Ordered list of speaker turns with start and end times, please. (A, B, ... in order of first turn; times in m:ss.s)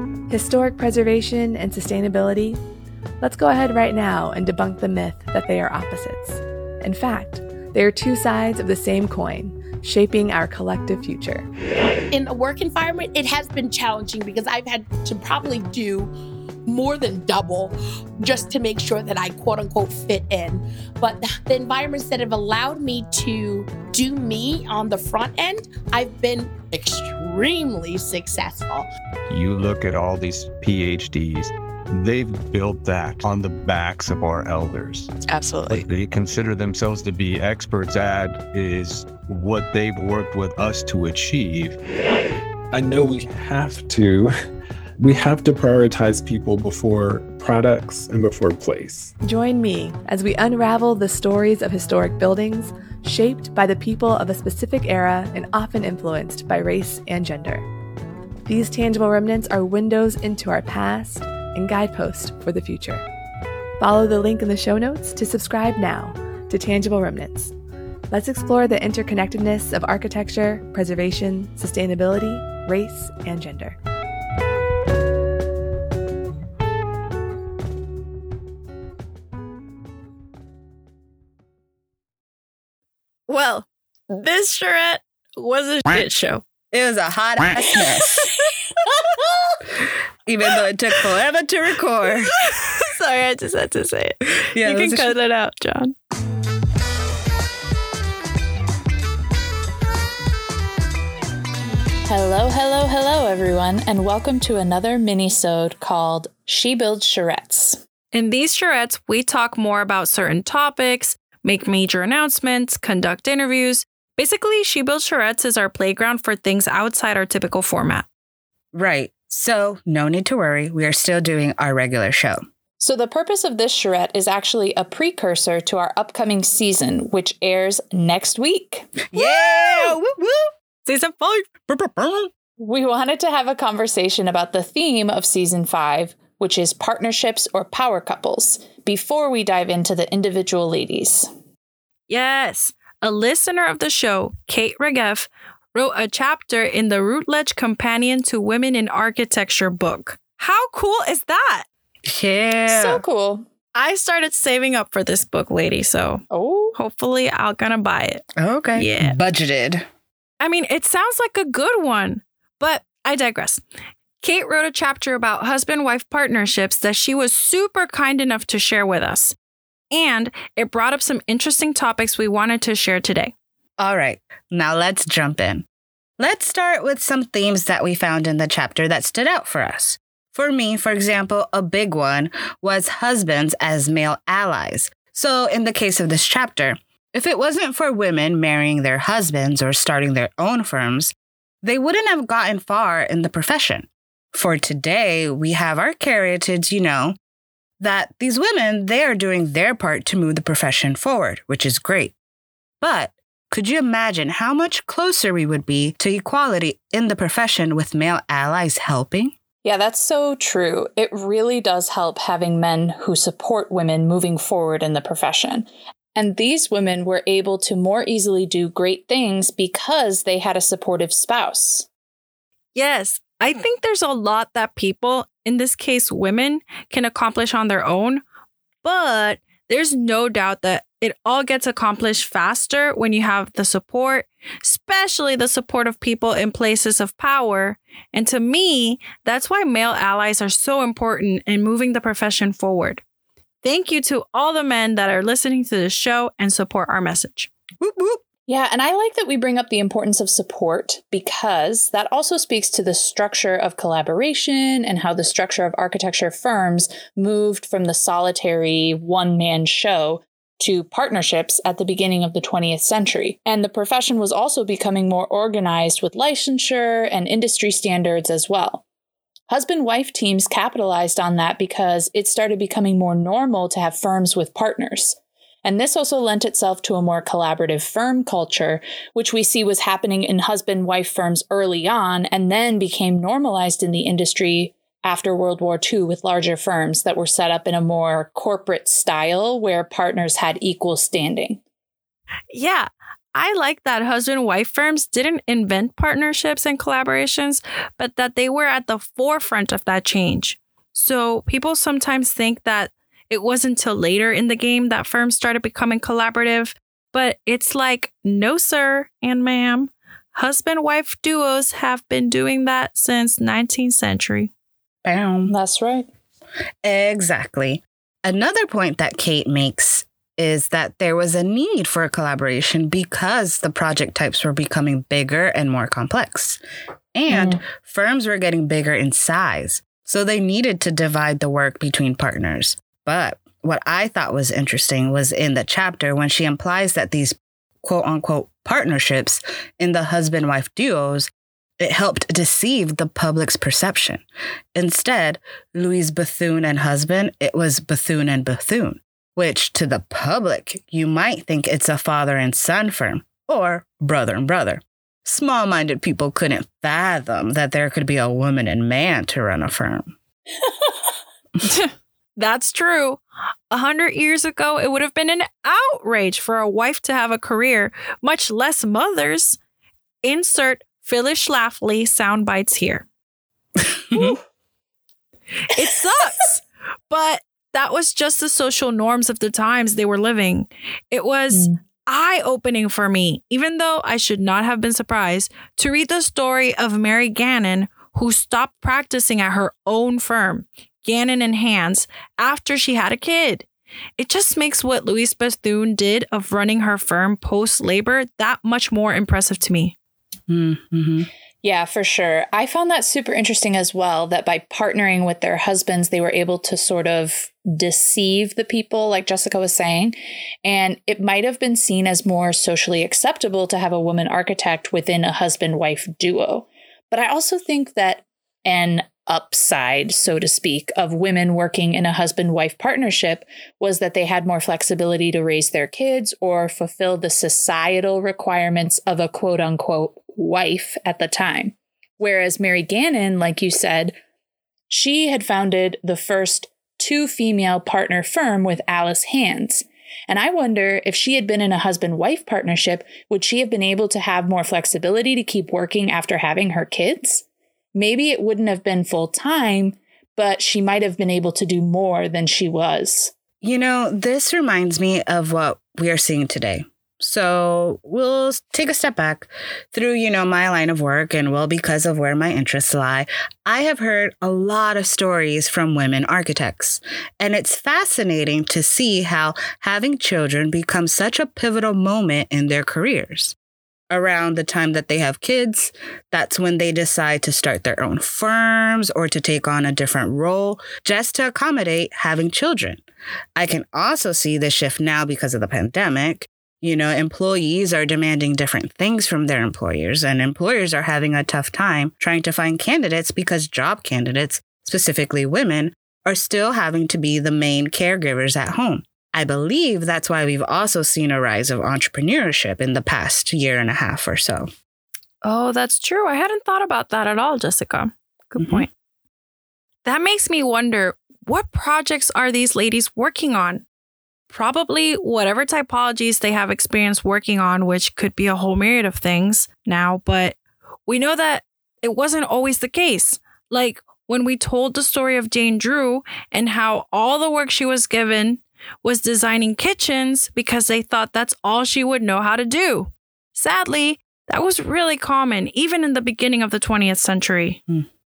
0:00.3-0:02.6 A
0:03.2-0:11.5 A
0:12.1-0:16.1 B
0:16.6-0:28.9 B
0:29.3-0:35.1 C
0:35.3-0:35.8 A
0:35.7-0:41.8 C
0:42.7-0:44.3 D
0:45.0-0:49.1 D
0:49.2-0:57.7 A
0:58.4-1:03.0 A
1:03.8-1:07.5 A
1:08.1-1:13.8 A
1:23.3-1:26.4 E
1:26.7-1:28.3 F
1:30.2-1:32.4 F
1:32.6-1:35.9 E
1:34.5-1:35.1 F
1:42.0-1:47.8 G
1:48.1-1:58.0 E
1:58.7-2:02.4 F
2:02.8-2:09.8 G
2:09.1-2:10.5 F
2:10.8-2:11.4 E
2:11.7-2:12.3 F
2:12.6-2:21.3 G
2:22.1-2:31.6 E
2:32.0-2:33.0 F
2:32.7-2:33.5 G
2:33.7-2:36.2 E
2:36.3-2:36.8 G
2:36.8-2:38.2 E
2:38.4-2:39.9 F
2:38.7-2:39.2 E
2:40.4-2:43.6 E
2:44.2-2:49.4 E
2:49.9-2:53.3 E
2:53.8-2:55.6 F
2:56.2-3:17.2 F
3:17.8-3:22.1 F
3:22.8-3:29.3 F
3:29.6-3:41.9 G
3:42.7-3:48.2 E
3:48.8-4:03.0 E
4:03.6-4:07.5 E
4:07.8-4:08.2 F
4:08.5-4:28.8 G
4:29.5-4:51.6 G
4:52.5-5:14.5 E
5:15.0-5:15.5 F
5:15.5-5:16.1 G
5:16.8-5:26.6 F
5:27.1-5:44.2 F
5:27.3-5:27.6 G
5:44.7-6:00.1 F
6:01.6-6:09.6 E
6:10.2-6:13.0 E
6:14.1-6:14.4 F
6:15.7-6:33.6 E
6:34.2-6:39.9 E
6:40.5-6:41.3 F
6:41.6-7:14.2 G
7:14.9-7:33.3 G
7:33.6-7:53.6 F
7:54.1-8:03.0 F
8:03.6-8:24.7 F
8:25.4-8:28.9 E
8:28.6-8:28.8 F
8:30.0-8:33.8 E
8:34.5-8:57.8 E